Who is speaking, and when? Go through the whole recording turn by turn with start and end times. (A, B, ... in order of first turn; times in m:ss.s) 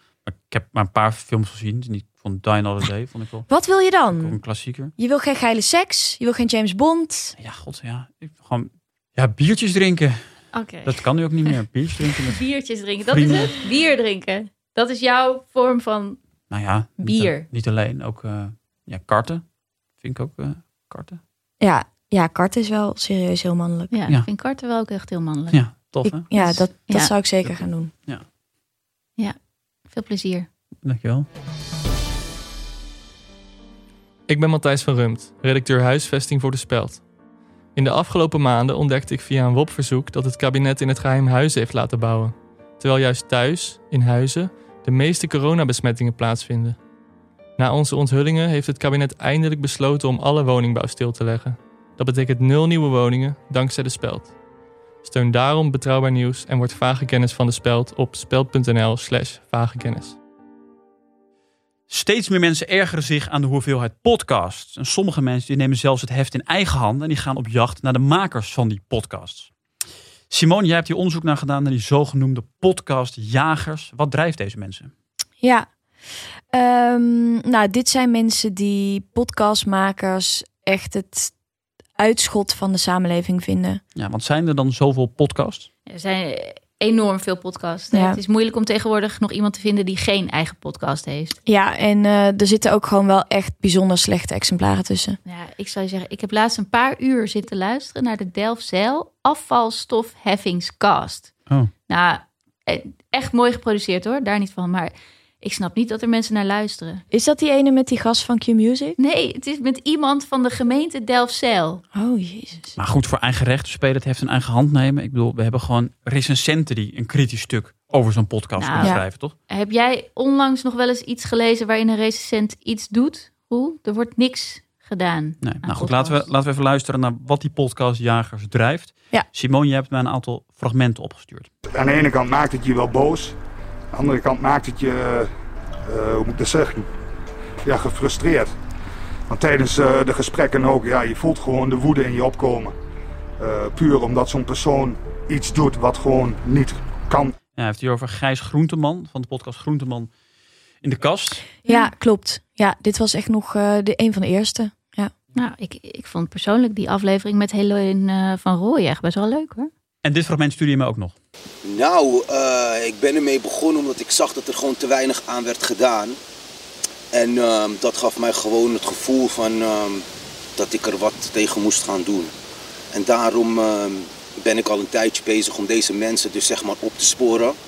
0:00.2-0:03.5 A
0:03.5-0:04.4 B
0:04.1-0:04.9 A
0:05.0-0:07.3 B
0:07.4-0:10.2 A
0:10.5-0:11.6 C
0:10.8-0:12.4 A
0:12.2-0:16.2 C
0:13.0-0:13.5 A
0:16.5-0:19.4 A
0:17.0-0:17.5 C
0:20.0-0:21.2 A
0:21.6-0:23.9 B
0:23.9-0:25.6 C
0:25.5-0:26.7 A
0:26.0-0:27.9 B
0:26.4-0:27.1 C
0:27.4-0:28.2 A
0:29.2-0:30.5 C
0:30.8-0:31.3 A
0:34.3-0:37.0 D
0:37.7-0:46.8 D
0:47.6-0:54.3 D
0:55.0-1:00.2 D
1:01.9-1:09.5 A
1:10.3-1:14.9 A
1:15.4-1:15.7 B
1:16.5-1:21.3 B
1:22.0-1:23.8 B
1:23.9-1:25.7 A
1:25.8-1:31.4 C
1:27.9-1:28.2 B
1:31.4-1:35.2 B
1:35.2-1:41.3 C
1:41.9-1:47.0 C
1:47.1-1:49.0 B
1:49.0-1:51.8 C
1:51.9-1:52.8 B
1:52.8-1:59.3 A
1:58.6-2:06.2 C
2:05.4-2:11.5 A
2:11.8-2:13.4 E
2:13.9-2:15.3 E
2:15.8-2:16.9 E
2:17.6-2:18.5 E
2:19.3-2:22.8 E
2:23.4-2:27.3 E
2:27.6-2:30.1 A
2:30.8-2:31.4 A
2:31.6-2:35.1 B
2:35.3-2:39.7 C
2:40.0-2:41.1 A
2:41.6-2:46.2 F
2:47.1-2:50.0 F
2:50.6-2:52.3 F
2:52.9-2:57.6 F